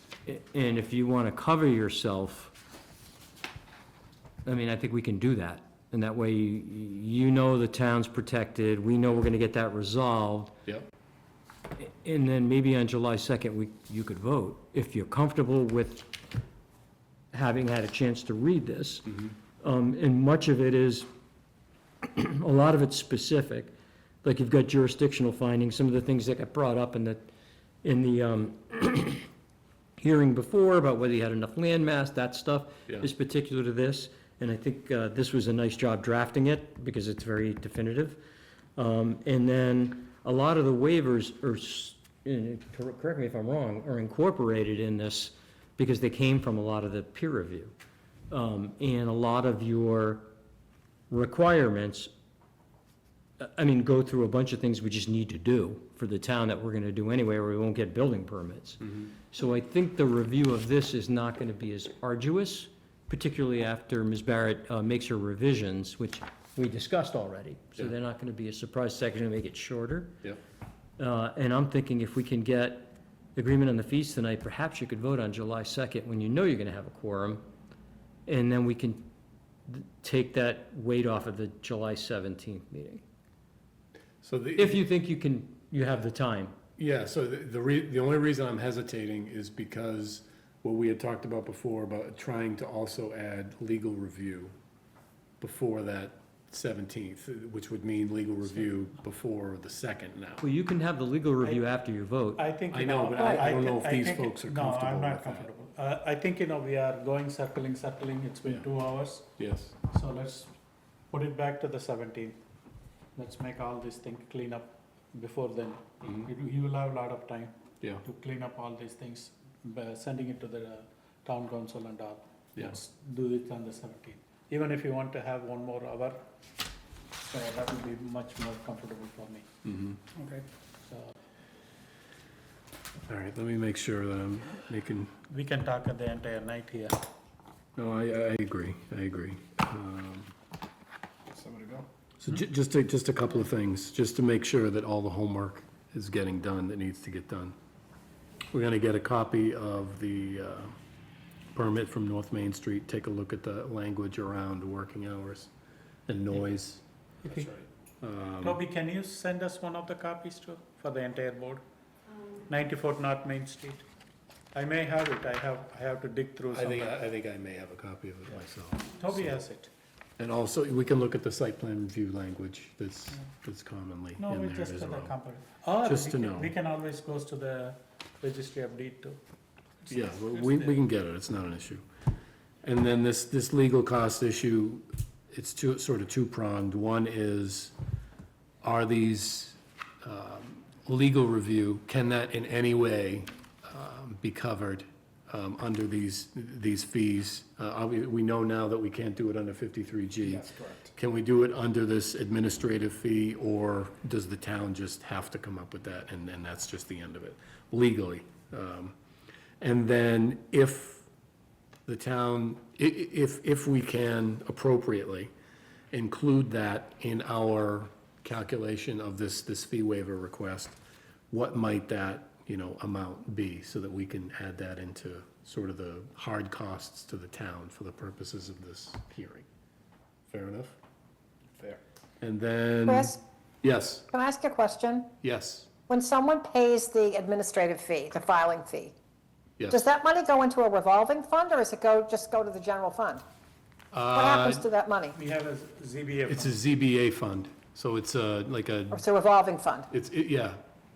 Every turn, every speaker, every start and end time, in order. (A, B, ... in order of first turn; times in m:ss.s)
0:00.2-0:02.5 A
0:04.4-0:10.5 A
0:11.8-0:16.1 A
0:17.3-0:21.1 A
0:22.0-0:23.7 A
0:24.2-0:27.3 A
0:27.8-0:29.3 A
0:30.0-0:38.2 A
0:38.8-0:47.7 A
0:48.3-0:50.3 A
0:51.1-0:52.1 A
0:53.4-1:10.2 A
1:11.0-1:17.4 A
1:18.3-1:19.1 A
1:19.7-1:23.0 A
1:24.2-1:24.8 B
1:24.6-1:26.5 A
1:26.8-1:34.5 B
1:35.4-1:40.4 B
1:40.4-1:42.4 A
1:42.4-1:49.3 C
1:42.7-1:45.5 B
1:49.4-1:49.7 B
1:49.9-1:50.5 C
1:51.1-1:52.4 C
1:53.2-2:06.2 C
2:07.2-2:09.5 C
2:09.6-2:10.0 B
2:10.1-2:11.1 C
2:13.1-2:15.1 B
2:15.3-2:17.0 C
2:17.8-2:20.3 B
2:21.3-2:27.5 B
2:28.5-2:30.7 B
2:31.5-2:35.5 B
2:36.1-2:38.6 B
2:38.4-2:41.6 C
2:42.5-2:43.8 C
2:44.5-2:46.9 C
2:46.5-2:49.4 B
2:49.0-2:49.7 C
2:50.2-2:55.1 B
2:54.2-2:59.2 C
2:55.8-2:56.5 B
2:59.9-3:00.8 C
2:59.9-3:01.8 B
3:02.6-3:07.7 B
3:08.6-3:28.9 B
3:29.6-3:31.0 B
3:31.9-3:35.3 B
3:35.9-3:40.8 B
3:41.3-3:49.4 B
3:50.3-3:50.8 B
3:52.2-3:54.1 B
3:52.9-3:53.2 D
3:54.1-3:55.1 D
3:55.2-3:55.7 B
3:55.9-3:58.9 D
3:59.6-3:59.8 B
3:59.7-4:03.2 D
4:03.9-4:04.7 B
4:04.1-4:05.2 D
4:05.1-4:06.6 C
4:06.3-4:09.0 B
4:08.9-4:09.9 D
4:09.9-4:10.6 B